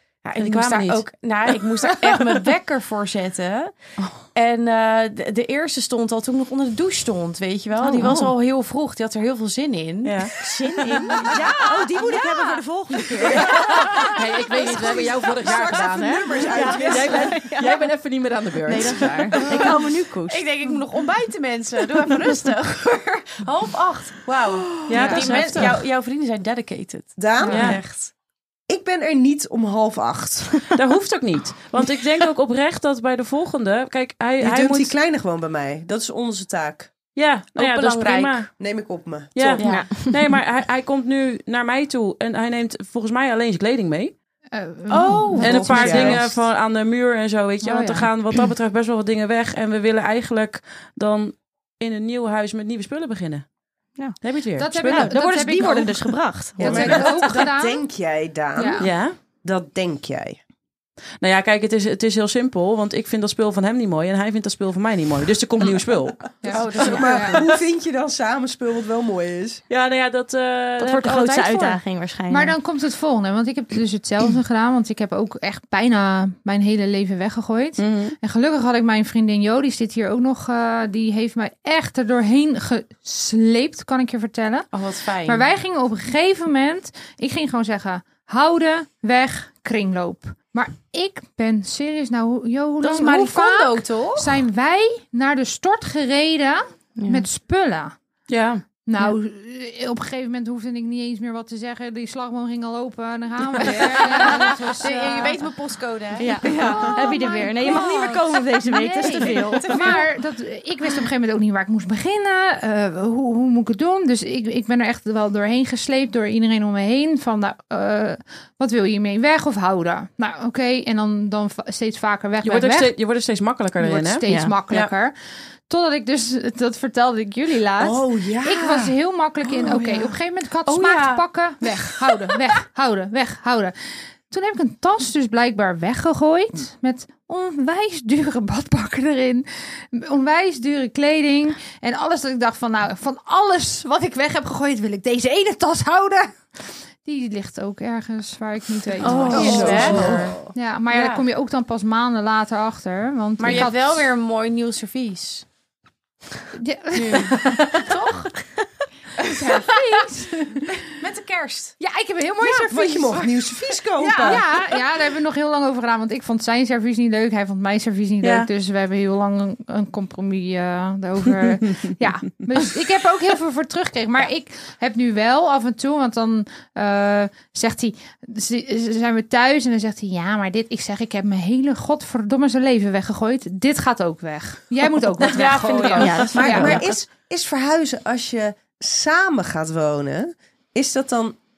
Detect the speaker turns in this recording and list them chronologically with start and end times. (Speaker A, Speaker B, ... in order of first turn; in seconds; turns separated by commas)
Speaker A: 0.2-3.7, Speaker B: 0.4-1.1, Speaker B: 4.0-4.2, Speaker A: 4.3-10.3, Speaker B: 8.0-8.3, Speaker C: 8.0-8.2, Speaker B: 10.0-10.3, Speaker C: 10.4-14.2, Speaker A: 11.0-12.6, Speaker A: 13.2-14.1, Speaker B: 13.4-19.8, Speaker A: 14.6-15.3, Speaker D: 15.4-17.4, Speaker C: 15.6-17.9, Speaker C: 18.6-20.5, Speaker A: 20.3-28.1, Speaker C: 24.7-25.1, Speaker B: 24.9-25.8, Speaker E: 24.9-25.3, Speaker D: 27.2-27.8, Speaker B: 27.5-27.8, Speaker D: 28.7-30.7, Speaker B: 30.7-34.9, Speaker D: 34.4-36.9, Speaker B: 37.1-38.5, Speaker A: 37.6-38.5, Speaker D: 38.6-39.6, Speaker B: 39.4-44.1, Speaker A: 39.6-40.1, Speaker C: 39.6-40.3, Speaker E: 44.5-46.1, Speaker A: 44.9-46.1, Speaker D: 45.4-46.4, Speaker B: 45.4-53.5, Speaker E: 47.6-48.1, Speaker B: 54.2-55.2, Speaker E: 54.6-56.0, Speaker C: 54.9-57.2, Speaker E: 56.6-57.8, Speaker D: 56.6-60.4, Speaker E: 58.6-58.9, Speaker B: 58.8-59.2, Speaker B: 61.2-67.1, Speaker E: 66.4-67.4, Speaker A: 66.5-67.4, Speaker D: 66.8-69.6, Speaker B: 69.7-71.8, Speaker C: 70.8-72.6, Speaker E: 72.3-84.7, Speaker B: 77.8-78.2, Speaker A: 84.7-85.5, Speaker E: 85.2-98.0, Speaker A: 92.8-94.4, Speaker C: 97.0-97.2, Speaker B: 98.3-98.6, Speaker E: 98.9-105.4, Speaker A: 103.6-107.9, Speaker C: 106.2-110.0, Speaker E: 106.4-123.0, Speaker A: 109.0-110.0, Speaker B: 122.4-124.9, Speaker E: 123.8-125.1, Speaker C: 124.3-124.6, Speaker E: 125.7-154.1, Speaker D: 127.8-128.9, Speaker A: 130.7-131.2, Speaker A: 149.0-150.3, Speaker C: 149.2-149.7, Speaker B: 149.3-150.2, Speaker D: 149.3-150.5, Speaker A: 150.9-151.2, Speaker A: 153.4-155.4, Speaker E: 156.6-157.9, Speaker A: 157.0-158.4, Speaker A: 159.2-160.0, Speaker E: 159.3-160.8, Speaker A: 160.8-161.8, Speaker E: 161.8-186.8, Speaker D: 162.4-164.4, Speaker A: 164.0-164.4, Speaker B: 168.2-168.5, Speaker A: 185.2-186.5, Speaker C: 186.0-186.9, Speaker D: 186.3-191.4